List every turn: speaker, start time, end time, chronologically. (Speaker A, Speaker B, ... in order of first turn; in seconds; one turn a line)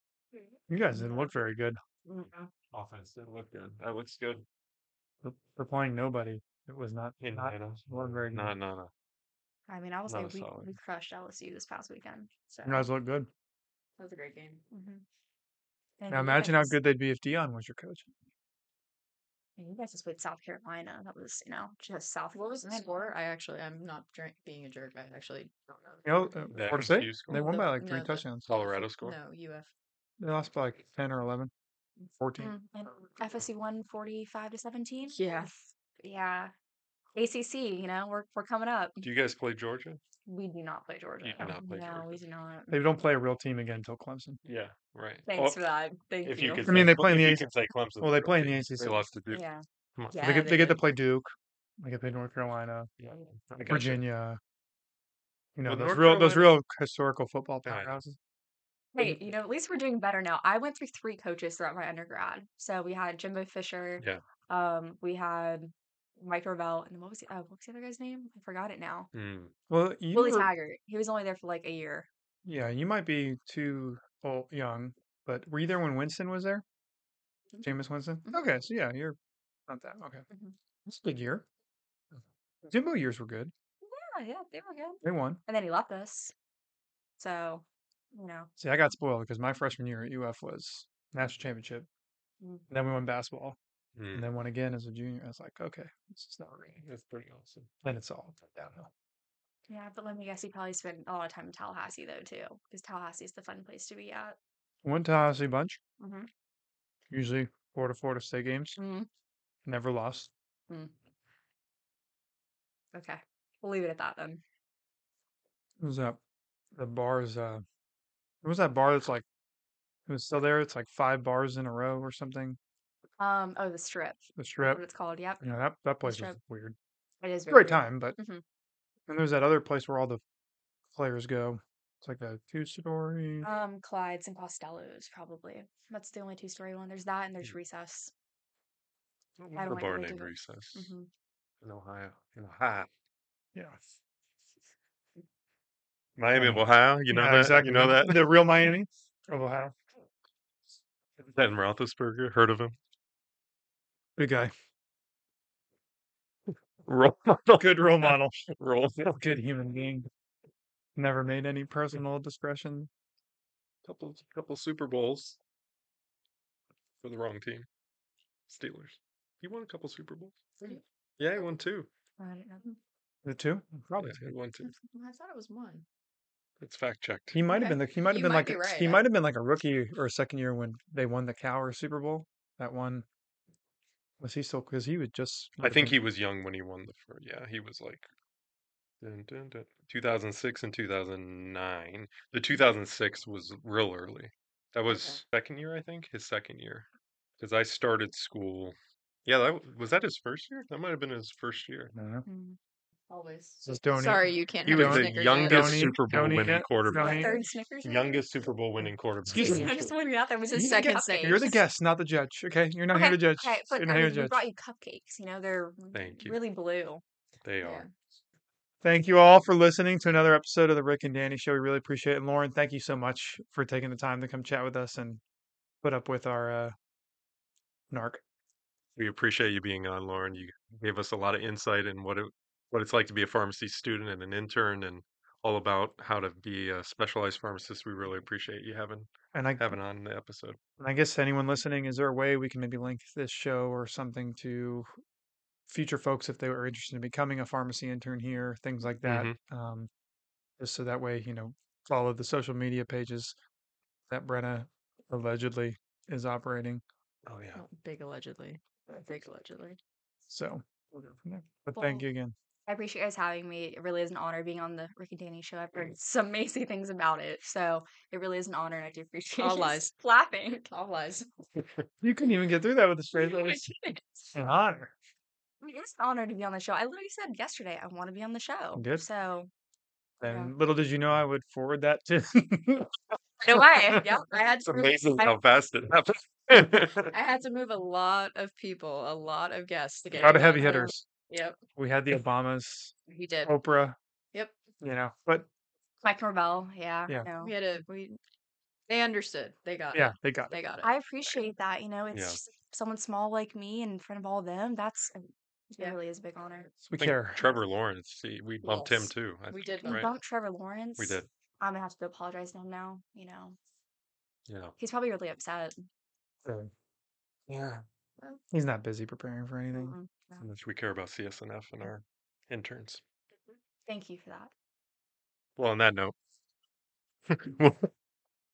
Speaker A: 0.7-1.8
Speaker B: 0.9-1.3
Speaker C: 2.1-4.4
Speaker A: 5.2-8.6
Speaker C: 7.2-8.9
Speaker B: 9.7-12.9
Speaker C: 10.1-10.7
Speaker A: 12.6-13.3
Speaker D: 14.0-14.6
Speaker B: 14.7-15.0
Speaker B: 16.0-16.8
Speaker A: 16.1-18.1
Speaker B: 19.6-23.0
Speaker D: 22.3-29.7
Speaker A: 26.0-28.5
Speaker C: 26.5-27.4
Speaker C: 28.4-29.2
Speaker A: 30.2-31.5
Speaker A: 32.0-32.5
Speaker B: 32.4-36.5
Speaker D: 35.1-35.7
Speaker B: 37.1-39.1
Speaker C: 39.0-40.0
Speaker B: 40.2-42.8
Speaker C: 41.2-42.2
Speaker A: 42.7-44.4
Speaker C: 44.4-45.6
Speaker B: 45.3-46.8
Speaker C: 46.2-49.4
Speaker A: 46.6-49.0
Speaker B: 49.3-50.8
Speaker C: 50.0-50.2
Speaker A: 50.2-52.9
Speaker C: 53.0-54.0
Speaker A: 53.6-54.4
Speaker A: 55.5-58.2
Speaker C: 55.6-56.6
Speaker C: 57.6-58.0
Speaker B: 58.9-69.1
Speaker C: 69.1-69.5
Speaker A: 69.7-70.5
Speaker B: 70.1-72.1
Speaker A: 72.4-76.6
Speaker B: 77.5-78.5
Speaker A: 77.6-79.2
Speaker A: 79.7-80.2
Speaker B: 80.3-80.5
Speaker A: 80.8-81.5
Speaker A: 82.2-83.5
Speaker B: 83.8-86.3
Speaker A: 85.0-85.4
Speaker B: 87.2-88.5
Speaker A: 88.6-91.9
Speaker A: 92.7-93.6
Speaker C: 94.0-94.3
Speaker A: 94.1-96.8
Speaker C: 96.8-97.7
Speaker A: 97.8-98.9
Speaker B: 99.7-104.4
Speaker A: 104.8-105.8
Speaker B: 106.0-106.3
Speaker A: 107.1-108.8
Speaker B: 108.8-109.1
Speaker A: 109.6-110.3
Speaker B: 112.9-114.4
Speaker A: 115.8-116.2
Speaker A: 116.8-117.6
Speaker A: 118.4-119.2
Speaker A: 120.1-122.6
Speaker B: 123.2-125.4
Speaker A: 124.4-124.8
Speaker A: 125.4-126.8
Speaker B: 126.0-126.4
Speaker B: 127.2-128.4
Speaker A: 127.5-128.2
Speaker A: 129.1-130.2
Speaker A: 130.9-133.5
Speaker B: 133.4-138.1
Speaker C: 139.4-140.9
Speaker B: 139.6-141.1
Speaker C: 141.6-142.9
Speaker C: 146.2-148.3
Speaker A: 146.3-149.8
Speaker C: 151.2-152.8
Speaker A: 154.2-154.5
Speaker C: 156.8-159.2
Speaker A: 157.6-158.4
Speaker A: 159.1-160.1
Speaker A: 160.9-162.9
Speaker C: 163.8-165.4
Speaker C: 167.0-167.7
Speaker C: 168.5-170.6
Speaker C: 171.2-171.9
Speaker B: 172.2-172.8
Speaker A: 173.2-174.2
Speaker C: 174.0-174.7
Speaker D: 174.6-175.8
Speaker C: 176.6-177.4
Speaker A: 177.3-183.0
Speaker D: 177.5-179.1
Speaker A: 184.2-186.0
Speaker C: 185.6-188.1
Speaker C: 189.0-196.8
Speaker D: 194.9-195.2
Speaker C: 197.4-201.9
Speaker A: 201.9-202.2
Speaker B: 202.2-202.6
Speaker D: 203.1-206.1
Speaker A: 203.6-207.4
Speaker C: 204.6-207.3
Speaker B: 206.9-208.5
Speaker C: 207.8-209.8
Speaker A: 209.3-209.7
Speaker B: 209.4-211.5
Speaker A: 210.5-214.4
Speaker D: 210.5-211.6
Speaker B: 212.9-217.0
Speaker C: 215.9-216.4
Speaker C: 217.4-217.9
Speaker D: 217.6-217.9
Speaker A: 218.8-225.2
Speaker A: 225.8-226.8
Speaker A: 227.9-228.2
Speaker C: 228.9-240.6
Speaker A: 239.3-239.8
Speaker A: 240.8-244.9
Speaker A: 245.7-249.9
Speaker C: 249.0-249.4
Speaker A: 250.6-253.3
Speaker A: 254.1-256.8
Speaker C: 257.2-257.6
Speaker D: 257.5-259.8
Speaker A: 260.3-262.3
Speaker B: 261.8-262.1
Speaker B: 262.6-270.7
Speaker D: 269.4-269.9
Speaker D: 270.7-271.3
Speaker A: 272.0-273.7
Speaker D: 273.1-274.2
Speaker A: 274.3-274.9
Speaker B: 275.6-279.5
Speaker A: 278.7-279.1
Speaker A: 280.2-282.9
Speaker B: 280.3-280.5
Speaker B: 283.4-284.3
Speaker A: 283.5-284.0
Speaker D: 284.0-285.2
Speaker C: 284.6-287.1
Speaker D: 287.1-291.6
Speaker A: 290.2-291.0
Speaker B: 290.2-290.7
Speaker A: 291.8-293.9
Speaker D: 293.1-293.5
Speaker A: 294.8-295.5
Speaker B: 296.0-297.5
Speaker D: 297.4-298.2
Speaker D: 298.9-300.9
Speaker A: 299.9-300.6
Speaker B: 300.8-306.7
Speaker C: 302.1-302.4
Speaker A: 306.8-307.4
Speaker C: 307.0-310.1
Speaker D: 308.6-310.1
Speaker B: 309.8-313.6
Speaker C: 311.0-311.3
Speaker C: 314.5-314.7
Speaker B: 314.8-315.9
Speaker C: 317.5-317.8
Speaker A: 318.5-320.0
Speaker B: 319.7-320.4
Speaker C: 320.4-323.0
Speaker B: 323.9-324.5
Speaker C: 325.6-326.1
Speaker C: 327.3-327.9